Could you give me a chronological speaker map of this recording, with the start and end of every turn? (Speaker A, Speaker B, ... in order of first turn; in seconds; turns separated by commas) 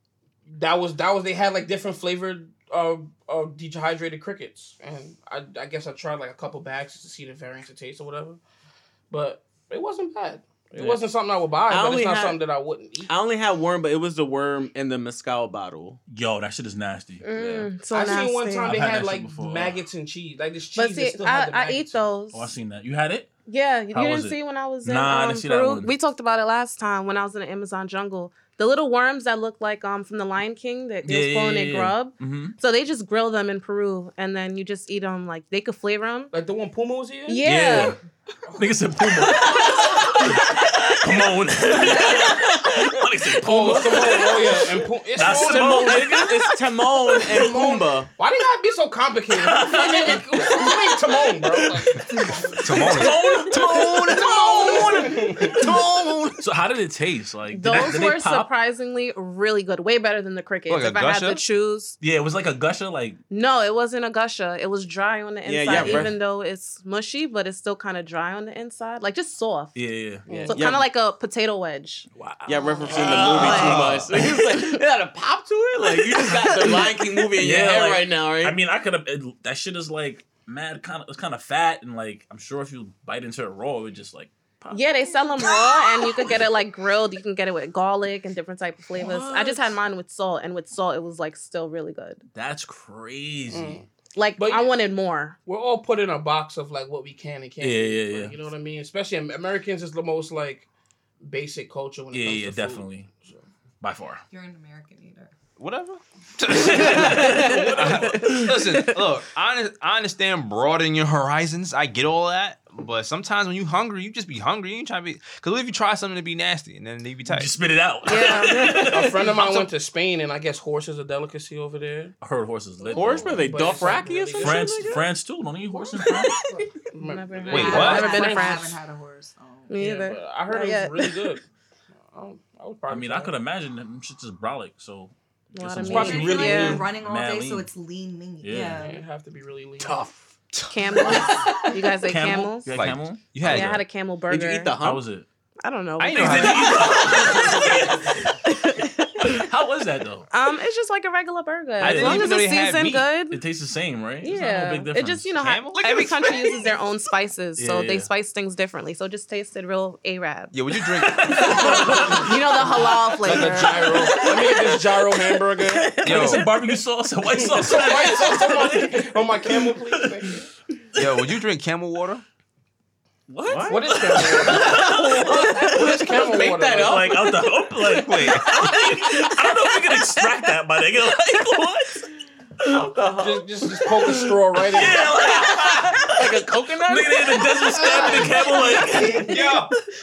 Speaker A: 0.5-8.4, Speaker A: 9.1-13.1, Speaker B: 10.8-11.0, Speaker C: 11.7-12.4, Speaker C: 13.1-16.0, Speaker B: 16.1-17.7, Speaker D: 17.2-18.8, Speaker A: 17.9-22.0, Speaker B: 18.6-19.8, Speaker D: 20.7-22.5, Speaker B: 22.3-23.3, Speaker D: 23.5-36.3, Speaker B: 23.9-25.9, Speaker B: 31.0-32.5, Speaker A: 36.3-37.4, Speaker D: 37.3-38.0, Speaker B: 37.4-38.0, Speaker B: 38.5-44.6, Speaker E: 41.9-42.4, Speaker A: 43.4-46.0, Speaker B: 45.1-46.5, Speaker C: 45.2-48.1, Speaker A: 47.3-52.1, Speaker B: 49.3-50.9, Speaker B: 51.5-52.0, Speaker E: 52.0-53.0, Speaker B: 52.6-55.4, Speaker F: 52.6-56.5, Speaker A: 54.1-55.6, Speaker B: 56.4-58.5, Speaker D: 57.5-62.0, Speaker F: 60.7-61.4, Speaker B: 62.0-63.2, Speaker D: 63.3-72.1, Speaker C: 65.4-66.2, Speaker B: 65.7-66.1, Speaker B: 69.7-70.3, Speaker A: 70.3-70.6, Speaker C: 70.3-70.9, Speaker B: 72.1-74.2, Speaker C: 72.5-78.6, Speaker D: 72.9-74.0, Speaker F: 73.4-74.1, Speaker D: 74.5-74.8, Speaker B: 75.9-84.8, Speaker D: 84.7-92.2, Speaker E: 85.2-86.0, Speaker B: 88.9-89.8, Speaker B: 92.3-93.8, Speaker A: 93.5-93.8, Speaker D: 94.1-95.4, Speaker A: 94.4-94.7, Speaker A: 95.5-100.7, Speaker B: 97.6-98.3, Speaker A: 101.2-103.4, Speaker B: 102.1-103.1, Speaker B: 103.8-104.2, Speaker E: 104.3-105.3, Speaker F: 105.6-117.5, Speaker B: 106.5-108.8, Speaker C: 106.6-107.7, Speaker B: 117.2-119.2, Speaker D: 118.0-118.9, Speaker A: 118.7-122.1, Speaker F: 119.2-119.7, Speaker B: 122.2-126.4, Speaker C: 122.9-125.1, Speaker A: 123.3-124.7, Speaker D: 126.0-128.8, Speaker A: 126.3-128.4, Speaker F: 127.5-128.2, Speaker E: 127.5-129.7, Speaker D: 129.7-131.4, Speaker A: 129.7-131.4, Speaker A: 132.1-133.3, Speaker B: 132.9-137.7, Speaker D: 135.5-136.9, Speaker E: 135.8-139.0, Speaker B: 138.4-138.9, Speaker A: 138.8-140.0, Speaker B: 139.8-140.2, Speaker F: 140.6-141.0, Speaker D: 140.6-142.7, Speaker E: 141.1-141.8, Speaker B: 141.5-143.8, Speaker F: 142.7-143.8, Speaker D: 143.4-144.8, Speaker C: 144.3-145.0, Speaker B: 144.8-145.3, Speaker D: 145.6-149.5, Speaker F: 146.0-146.9, Speaker B: 146.1-148.4, Speaker B: 149.2-150.3, Speaker D: 150.3-153.4, Speaker F: 151.8-153.1, Speaker B: 151.8-152.3, Speaker B: 153.3-155.3, Speaker D: 154.2-160.6, Speaker F: 155.4-156.2, Speaker B: 157.6-158.1, Speaker F: 160.5-161.7, Speaker B: 160.9-164.6, Speaker D: 161.3-164.8, Speaker A: 161.8-162.2, Speaker A: 163.2-165.9, Speaker D: 165.6-166.5, Speaker B: 166.0-169.9, Speaker F: 166.0-166.5, Speaker A: 167.3-170.5, Speaker F: 170.9-172.2, Speaker B: 173.3-175.8, Speaker C: 173.5-179.3, Speaker A: 173.6-177.1, Speaker B: 176.7-182.9, Speaker F: 178.0-178.7, Speaker C: 182.7-183.4, Speaker A: 183.2-185.1, Speaker B: 184.7-189.6, Speaker C: 185.2-189.0, Speaker F: 189.2-189.7